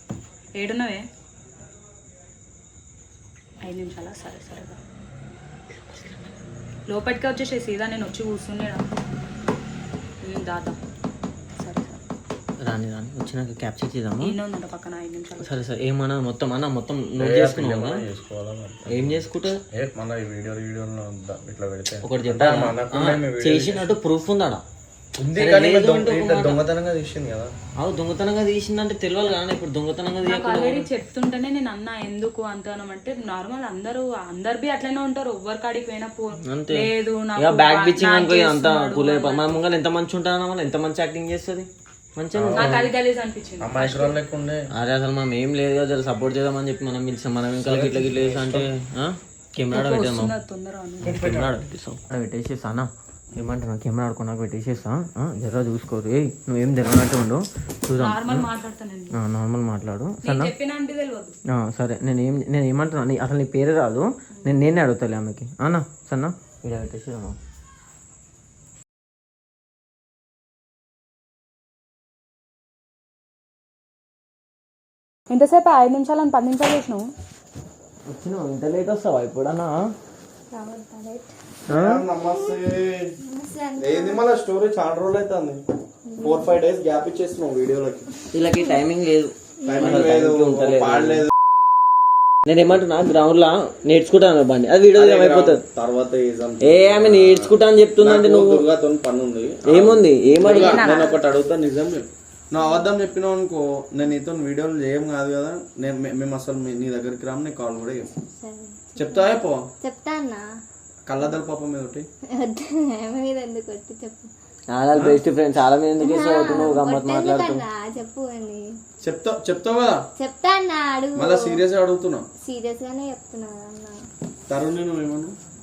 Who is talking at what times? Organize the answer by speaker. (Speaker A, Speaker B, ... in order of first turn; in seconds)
Speaker A: 0.6-1.0, 3.6-4.8, 6.9-8.8, 10.2-10.8, 11.6-12.0, 14.2-15.5, 30.2-39.5, 42.5-44.1, 49.7-51.2, 58.0-59.1, 60.2-61.4, 75.3-77.1, 100.5-101.2
Speaker B: 12.6-14.3, 15.4-18.0, 18.9-19.6, 22.0-24.6, 25.4-26.6, 27.8-30.9, 36.4-36.9, 37.4-42.9, 44.7-50.3, 51.0-58.4, 59.1-60.5, 61.5-67.4, 78.1-79.9, 81.7-82.0, 88.3-91.3, 92.5-95.6, 96.6-98.6, 99.7-101.0, 114.7-117.6
Speaker C: 17.2-23.9, 25.2-27.5, 42.3-42.8, 43.6-44.7, 47.6-48.7, 51.0-51.6, 81.7-83.1, 83.8-85.6, 86.2-88.1, 89.6-91.3, 94.9-108.1, 109.0-109.7, 111.1-112.1, 114.9-115.2, 119.0-120.0, 121.2-122.3, 124.5-125.3
Speaker D: 80.5-81.3, 82.2-82.7, 83.2-84.2, 86.1-86.6, 89.6-90.0, 108.2-110.4, 112.3-114.3, 116.0-118.6, 120.2-121.6, 122.4-124.0